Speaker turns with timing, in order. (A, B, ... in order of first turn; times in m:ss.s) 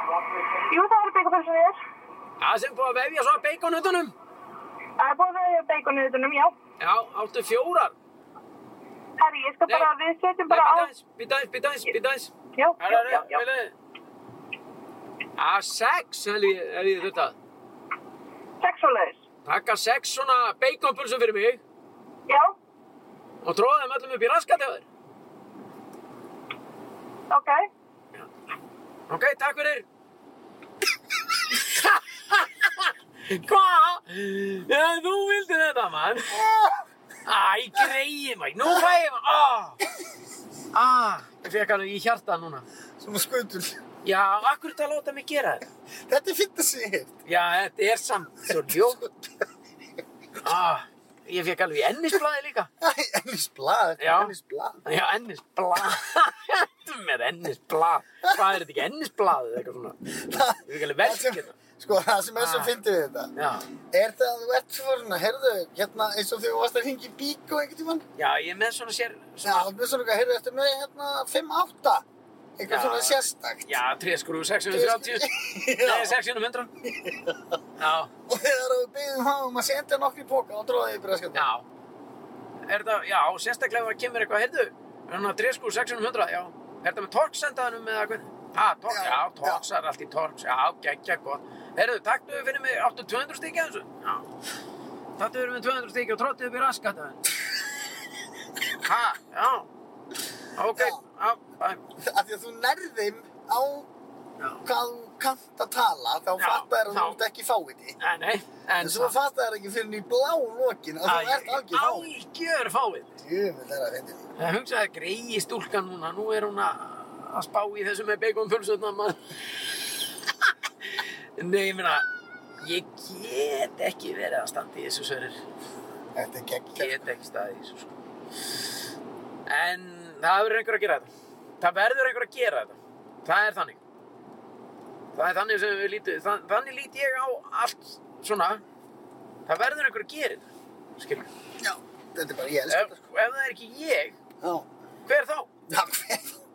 0:00.7-0:01.8 A
0:02.4-0:04.1 B
0:05.0-0:06.5 A
0:06.8-0:07.9 B
0:09.2-0:10.9 A
0:10.5-0:13.7 B
0:12.6-0:13.4 A
0:15.4-0:17.4 B
0:18.6-0:19.2 A
0:19.5-0:21.6 B
0:22.3-0:22.5 A
0:23.4-0:24.8 B
0:27.3-0:27.6 A
0:29.1-0:29.8 B
0:31.5-0:36.4 B
0:36.3-0:36.8 C
0:37.3-0:39.8 B
0:40.7-0:42.7 B
0:43.0-0:43.8 C
0:44.0-0:45.7 B
0:46.0-0:47.1 C
0:47.2-0:49.0 B
0:48.6-0:49.4 C
0:50.4-0:52.7 B
0:52.8-0:54.8 C
0:54.0-0:54.3 B
0:54.8-1:00.0 B
1:00.1-1:03.3 C
1:00.7-1:01.6 B
1:02.4-1:02.7 B
1:03.4-1:03.7 B
1:03.9-1:08.1 C
1:08.2-1:09.7 B
1:09.4-1:12.0 C
1:12.6-1:13.8 C
1:12.7-1:16.7 B
1:14.7-1:16.2 C
1:16.8-1:17.6 C
1:17.8-1:18.1 B
1:18.3-1:21.5 C
1:21.3-1:21.7 B
1:22.7-1:34.3 B
1:28.9-1:29.6 C
1:35.2-1:37.2 B
1:38.8-1:39.7 B
1:40.6-1:41.8 B
1:42.0-1:43.9 C
1:44.6-1:48.0 C
1:46.4-1:47.2 B
1:48.0-1:49.2 B
1:48.8-1:52.1 C
1:51.1-1:53.2 B
1:53.2-1:54.3 C
1:54.4-2:02.1 B
2:02.6-2:05.4 B
2:06.2-2:07.0 C
2:06.8-2:07.9 B
2:09.5-2:13.8 B
2:15.1-2:18.6 B
2:19.5-2:21.3 B
2:21.6-2:23.0 C
2:22.7-2:24.2 B
2:24.4-2:24.7 C
2:25.1-2:25.5 B
2:25.7-2:26.4 C